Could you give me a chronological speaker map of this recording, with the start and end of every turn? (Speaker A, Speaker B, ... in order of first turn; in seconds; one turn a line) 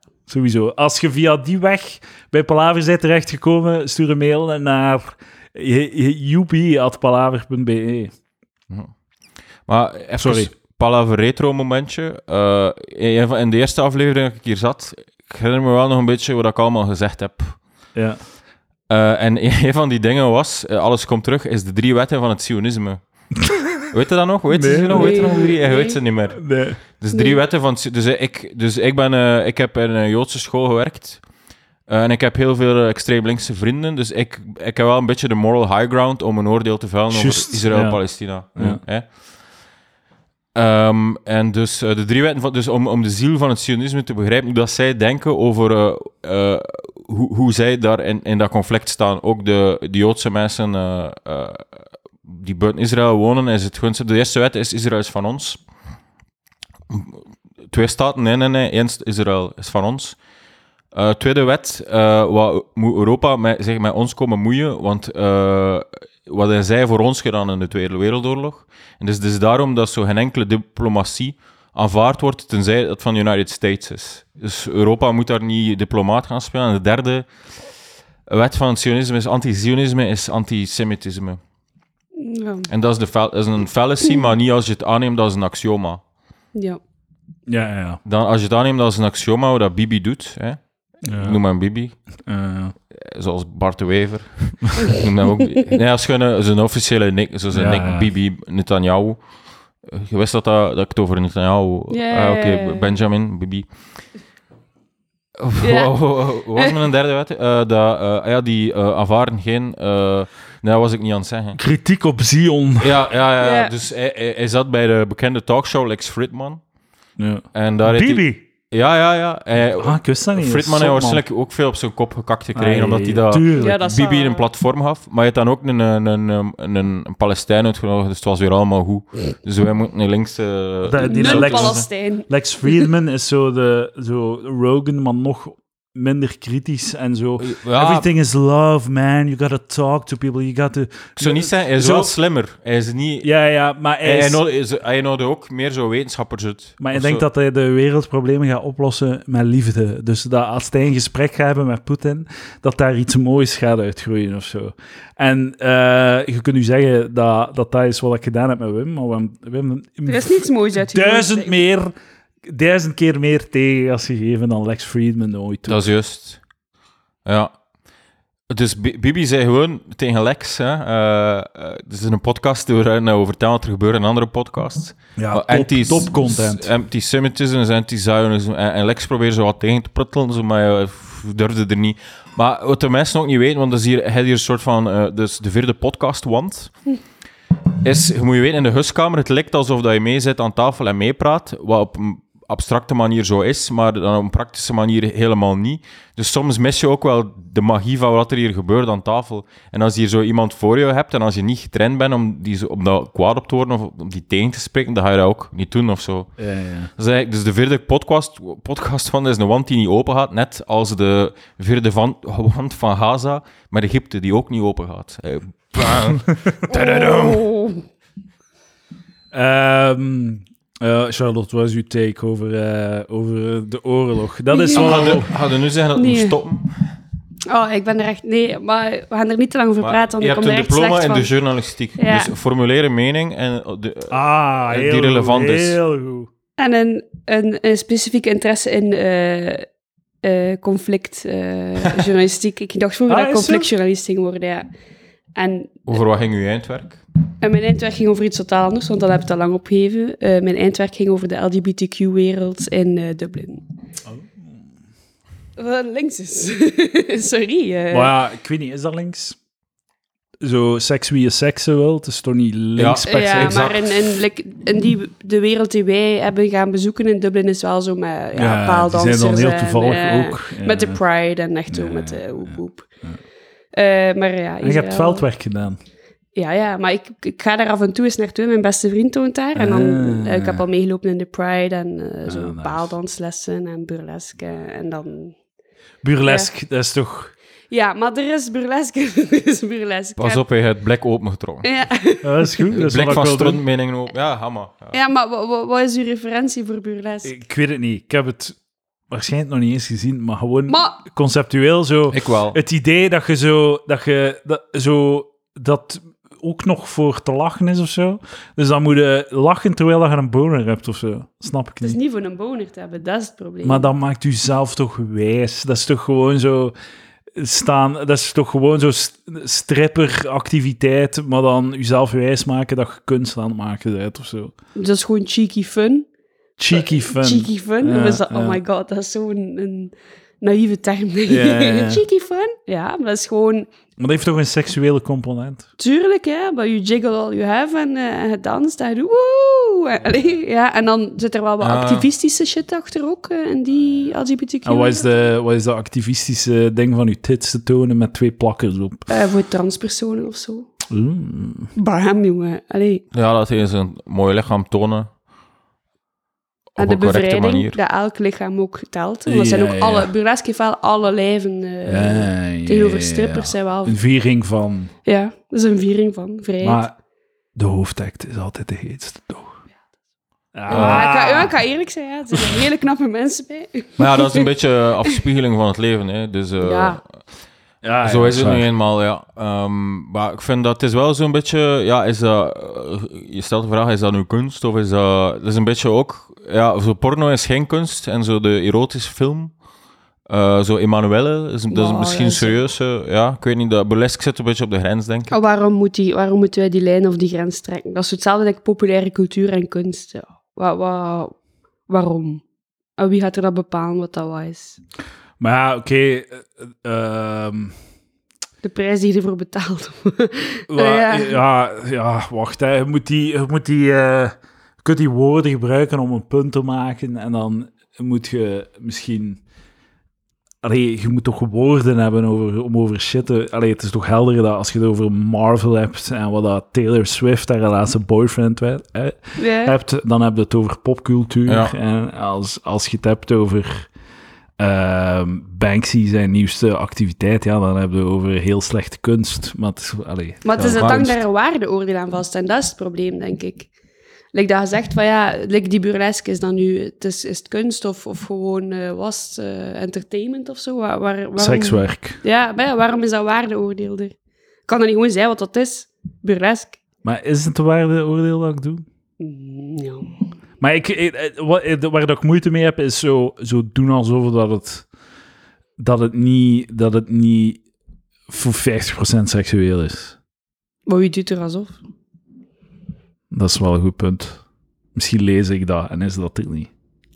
Speaker A: 0.3-8.1
Speaker B: 9.7-17.6
Speaker A: 10.2-10.5
Speaker A: 17.9-18.2
Speaker B: 18.9-23.0
Speaker B: 23.9-31.2
Speaker A: 24.5-25.3
Speaker C: 24.9-26.0
Speaker A: 26.3-26.8
Speaker C: 27.1-27.4
Speaker B: 31.9-39.1
Speaker A: 37.1-38.8
Speaker B: 40.5-51.7
Speaker B: 52.2-55.6
Speaker B: 56.9-60.2
Speaker B: 60.9-77.3
Speaker B: 78.3-81.4
Speaker C: 82.2-82.7
Speaker B: 82.7-86.0
Speaker C: 86.5-86.8
Speaker A: 87.5-88.0
Speaker B: 88.0-92.0
Speaker A: 91.0-91.4
Speaker A: 92.2-92.7
Speaker B: 92.9-99.2
Speaker A: 97.5-98.1
Speaker B: 99.8-103.7
Speaker C: 101.9-102.9
Speaker B: 105.4-111.6
Speaker C: 105.6-105.9
Speaker A: 111.5-112.9
Speaker B: 112.8-116.6
Speaker C: 113.4-113.7
Speaker A: 117.2-118.4
Speaker B: 117.5-131.8
Speaker A: 119.8-121.2
Speaker A: 122.5-123.8
Speaker C: 123.5-124.5
Speaker A: 130.8-142.1
Speaker C: 131.0-132.9
Speaker B: 137.4-138.1
Speaker B: 141.2-143.3
Speaker A: 143.2-144.4
Speaker B: 144.0-147.2
Speaker A: 146.8-161.9
Speaker C: 160.1-161.6
Speaker A: 162.4-165.8
Speaker B: 165.7-166.4
Speaker B: 167.2-167.5
Speaker B: 168.5-186.7
Speaker A: 175.2-176.7
Speaker B: 187.8-206.3
Speaker A: 206.4-206.9
Speaker B: 207.0-217.5
Speaker C: 216.7-217.8
Speaker A: 219.3-225.3
Speaker C: 224.5-225.2
Speaker B: 224.7-226.8
Speaker C: 225.9-226.4
Speaker C: 227.5-231.3
Speaker B: 229.8-234.2
Speaker C: 232.0-232.3
Speaker A: 234.1-236.3
Speaker B: 234.7-235.8
Speaker C: 236.6-239.7
Speaker C: 240.2-244.7
Speaker A: 243.1-243.7
Speaker C: 245.3-245.8
Speaker B: 245.9-247.0
Speaker C: 247.4-253.6
Speaker A: 254.1-254.5
Speaker C: 255.6-258.1
Speaker A: 257.9-259.4
Speaker A: 260.4-263.7
Speaker B: 262.8-264.1
Speaker C: 263.1-272.9
Speaker A: 268.3-271.0
Speaker A: 271.7-273.2
Speaker C: 273.7-275.2
Speaker A: 274.6-275.8
Speaker C: 276.4-285.3
Speaker A: 279.5-280.6
Speaker A: 282.2-282.9
Speaker A: 286.0-287.3
Speaker C: 287.7-290.4
Speaker B: 290.2-291.7
Speaker C: 291.6-292.5
Speaker A: 292.2-293.6
Speaker B: 292.7-294.9
Speaker C: 294.9-297.4
Speaker A: 297.2-298.6
Speaker A: 299.1-312.0
Speaker C: 300.7-301.0
Speaker B: 302.1-302.6
Speaker C: 311.8-313.9
Speaker A: 313.6-316.7
Speaker A: 317.4-324.5
Speaker C: 324.8-326.1
Speaker A: 326.6-328.6
Speaker C: 326.7-333.7
Speaker A: 331.3-332.0
Speaker A: 334.0-335.7
Speaker C: 335.8-345.3
Speaker B: 341.6-342.1
Speaker A: 344.6-349.1
Speaker C: 349.1-350.7
Speaker A: 350.9-351.7
Speaker C: 351.7-353.0
Speaker B: 353.1-355.1
Speaker B: 356.8-357.8
Speaker C: 356.8-364.0
Speaker A: 359.2-360.1
Speaker A: 361.9-364.9
Speaker C: 365.0-366.8
Speaker A: 366.6-366.9
Speaker A: 367.6-369.6
Speaker A: 370.5-371.5
Speaker B: 370.7-371.1
Speaker C: 370.7-374.5
Speaker A: 372.3-372.6
Speaker B: 374.0-377.0
Speaker C: 376.6-377.0
Speaker A: 377.8-378.7
Speaker B: 378.0-389.5
Speaker B: 390.3-395.3
Speaker C: 391.7-392.6
Speaker C: 395.3-401.3
Speaker C: 401.9-402.4
Speaker C: 403.0-404.8
Speaker A: 405.4-407.7
Speaker C: 408.6-411.4
Speaker A: 410.7-419.4
Speaker A: 420.6-433.9
Speaker C: 429.4-429.7
Speaker B: 431.5-431.7
Speaker A: 434.6-441.2
Speaker C: 440.4-443.7
Speaker B: 440.6-441.1
Speaker C: 444.3-454.1
Speaker A: 451.4-452.2
Speaker C: 454.7-456.8
Speaker A: 457.0-458.8
Speaker C: 459.2-460.1
Speaker A: 460.6-464.9
Speaker A: 465.8-467.6
Speaker A: 468.3-470.1
Speaker C: 470.9-471.8
Speaker A: 473.3-474.4
Speaker A: 474.9-476.7